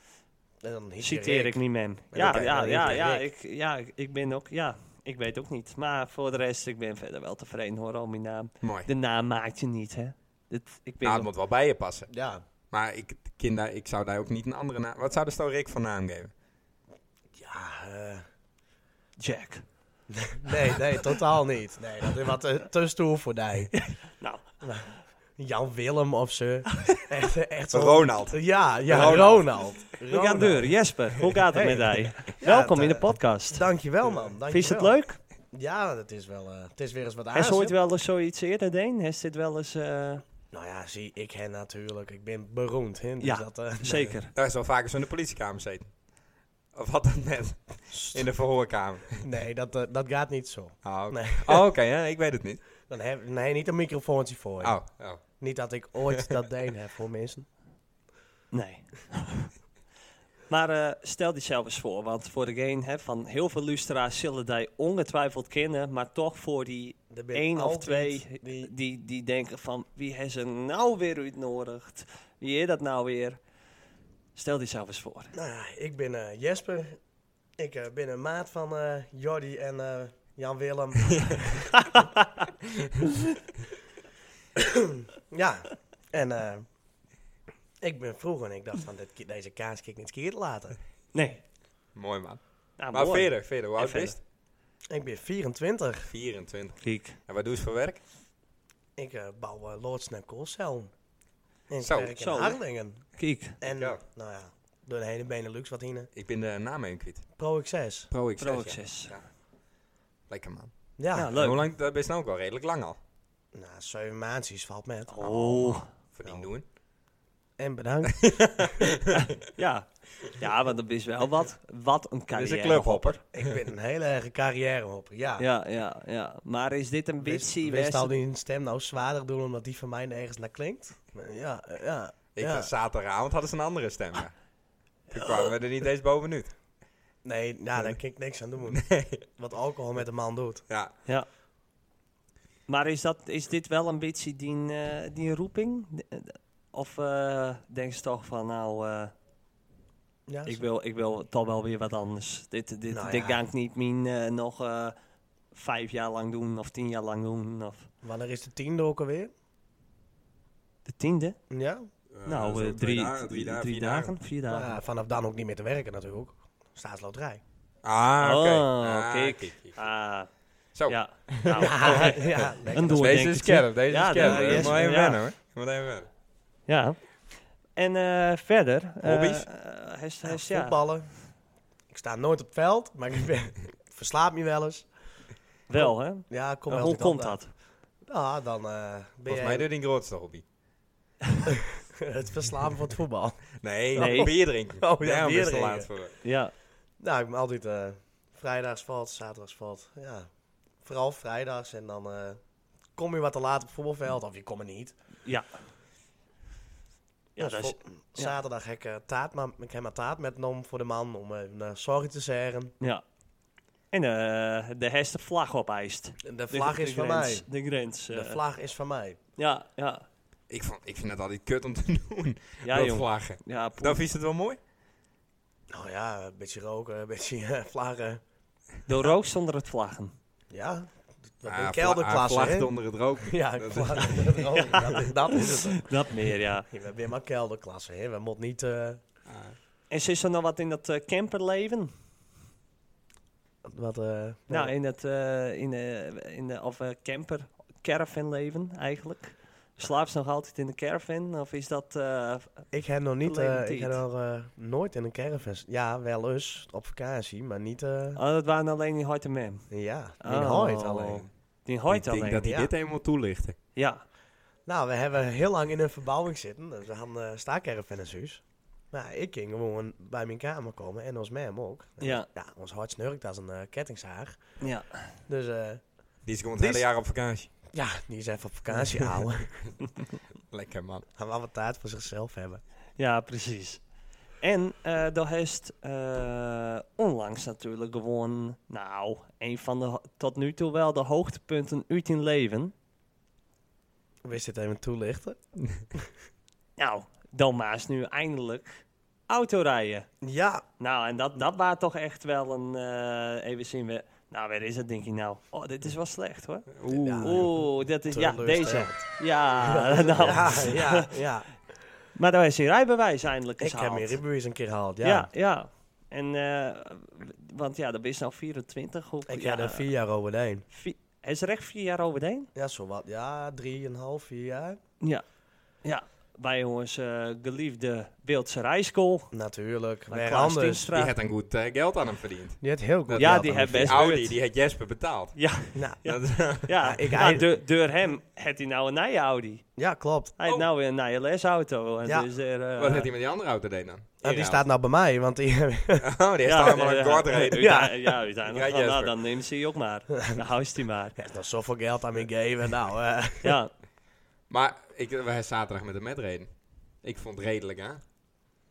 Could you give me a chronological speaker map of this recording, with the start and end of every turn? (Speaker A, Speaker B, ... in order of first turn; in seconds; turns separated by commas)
Speaker A: 0.6-3.3, Speaker B: 1.0-11.3, Speaker C: 2.1-3.0, Speaker C: 8.6-8.9, Speaker C: 11.0-12.1, Speaker A: 12.1-12.4, Speaker C: 12.7-16.3, Speaker A: 17.4-18.2, Speaker B: 19.2-19.6, Speaker A: 20.1-23.7, Speaker B: 23.8-24.4, Speaker A: 24.6-30.8, Speaker C: 27.7-29.4, Speaker B: 30.1-33.6, Speaker A: 31.5-35.0, Speaker B: 34.5-35.2, Speaker A: 35.5-37.8, Speaker B: 37.4-40.2, Speaker A: 40.5-44.1, Speaker B: 43.2-44.3, Speaker C: 44.3-45.9, Speaker C: 46.7-49.2, Speaker A: 47.9-48.3, Speaker A: 49.2-51.6, Speaker C: 50.8-52.6, Speaker A: 52.9-57.5, Speaker C: 54.6-55.2, Speaker B: 58.5-59.5, Speaker B: 60.5-73.4, Speaker A: 67.1-68.7, Speaker B: 74.3-75.3, Speaker A: 75.3-77.0, Speaker A: 77.6-81.7, Speaker A: 84.6-86.7, Speaker A: 87.8-90.8, Speaker B: 91.1-91.4, Speaker C: 92.0-94.2, Speaker B: 92.8-94.2, Speaker A: 94.9-96.1, Speaker C: 96.1-98.0, Speaker B: 96.8-97.2, Speaker A: 99.0-100.9, Speaker A: 101.7-103.1, Speaker C: 101.8-102.1, Speaker B: 102.2-102.6, Speaker B: 103.2-103.6, Speaker A: 103.6-106.1, Speaker C: 103.6-104.0, Speaker C: 106.2-107.3, Speaker A: 107.4-108.1, Speaker C: 108.1-109.2, Speaker B: 108.4-109.1, Speaker C: 110.3-113.0, Speaker A: 111.0-111.3, Speaker B: 111.1-111.6, Speaker A: 113.5-116.5, Speaker B: 115.1-115.9, Speaker C: 116.1-116.6, Speaker A: 117.6-118.9, Speaker C: 118.1-119.0, Speaker B: 119.1-123.2, Speaker C: 122.3-123.5, Speaker A: 123.3-125.5, Speaker B: 125.4-128.2, Speaker A: 127.2-132.7, Speaker C: 132.3-134.3, Speaker C: 135.1-136.5, Speaker A: 137.2-140.6, Speaker C: 138.7-139.2, Speaker B: 142.7-149.1, Speaker A: 150.3-150.6, Speaker B: 150.5-154.9, Speaker A: 152.9-153.4, Speaker B: 155.5-157.9, Speaker A: 158.0-159.3, Speaker B: 160.9-161.4, Speaker A: 161.5-161.9, Speaker C: 162.1-164.1, Speaker B: 162.3-164.8, Speaker A: 164.5-167.4, Speaker C: 167.8-169.8, Speaker B: 168.2-170.3, Speaker C: 170.8-176.1, Speaker B: 170.9-175.2, Speaker A: 171.6-173.2, Speaker A: 174.2-174.8, Speaker B: 176.7-177.0, Speaker B: 177.8-180.8, Speaker C: 179.0-179.5, Speaker A: 180.2-181.1, Speaker A: 181.9-184.9, Speaker B: 185.7-187.5, Speaker A: 185.7-189.7, Speaker C: 189.3-190.4, Speaker A: 191.5-195.9, Speaker C: 193.6-196.2, Speaker B: 194.0-194.3, Speaker B: 196.2-196.5, Speaker A: 197.0-200.3, Speaker A: 200.8-202.4, Speaker A: 202.9-204.9, Speaker B: 207.4-208.3, Speaker A: 207.4-212.7, Speaker B: 213.9-218.4, Speaker A: 216.2-217.5, Speaker A: 218.1-219.2, Speaker B: 219.4-220.1, Speaker C: 220.5-224.6, Speaker B: 222.6-224.0, Speaker A: 225.7-228.2, Speaker B: 228.9-230.1, Speaker A: 230.5-230.9, Speaker A: 231.4-232.7, Speaker C: 231.5-235.1, Speaker A: 233.2-235.9, Speaker B: 235.7-236.7, Speaker A: 236.7-239.0, Speaker C: 239.3-239.6, Speaker B: 239.9-241.9, Speaker A: 243.6-244.7, Speaker B: 244.5-252.7, Speaker A: 252.7-258.2, Speaker B: 253.2-254.0, Speaker B: 258.1-259.7, Speaker A: 259.7-261.2, Speaker B: 260.2-262.5, Speaker C: 261.9-263.6, Speaker A: 262.4-262.7, Speaker B: 263.8-264.0, Speaker A: 264.6-274.6, Speaker B: 272.0-272.3, Speaker B: 274.6-275.1, Speaker A: 275.3-275.8, Speaker C: 276.2-277.5, Speaker A: 276.6-276.9, Speaker A: 277.7-279.6, Speaker C: 280.5-281.1, Speaker A: 281.2-282.6, Speaker B: 283.0-283.8, Speaker B: 284.4-292.7, Speaker A: 294.2-295.4, Speaker B: 296.8-300.1, Speaker A: 300.2-300.6, Speaker B: 300.8-311.1, Speaker C: 306.7-307.5, Speaker A: 306.9-311.5, Speaker B: 312.1-314.2, Speaker A: 313.6-315.3, Speaker B: 315.0-319.9, Speaker A: 319.3-320.6, Speaker B: 320.7-322.5, Speaker A: 322.6-324.8, Speaker B: 325.8-329.3, Speaker A: 329.3-330.9, Speaker B: 330.1-331.1, Speaker C: 330.9-335.4, Speaker A: 332.6-334.1, Speaker B: 333.2-334.3, Speaker B: 335.4-339.6, Speaker A: 335.8-336.0, Speaker C: 336.1-336.8, Speaker A: 336.8-337.5, Speaker A: 339.8-340.3, Speaker B: 340.4-343.1, Speaker C: 342.8-344.7, Speaker A: 344.2-346.1, Speaker C: 346.0-347.8, Speaker B: 346.5-351.2, Speaker A: 347.5-348.1, Speaker C: 348.5-349.1, Speaker A: 351.2-353.6, Speaker B: 353.4-353.7, Speaker C: 354.5-356.5, Speaker C: 357.0-358.0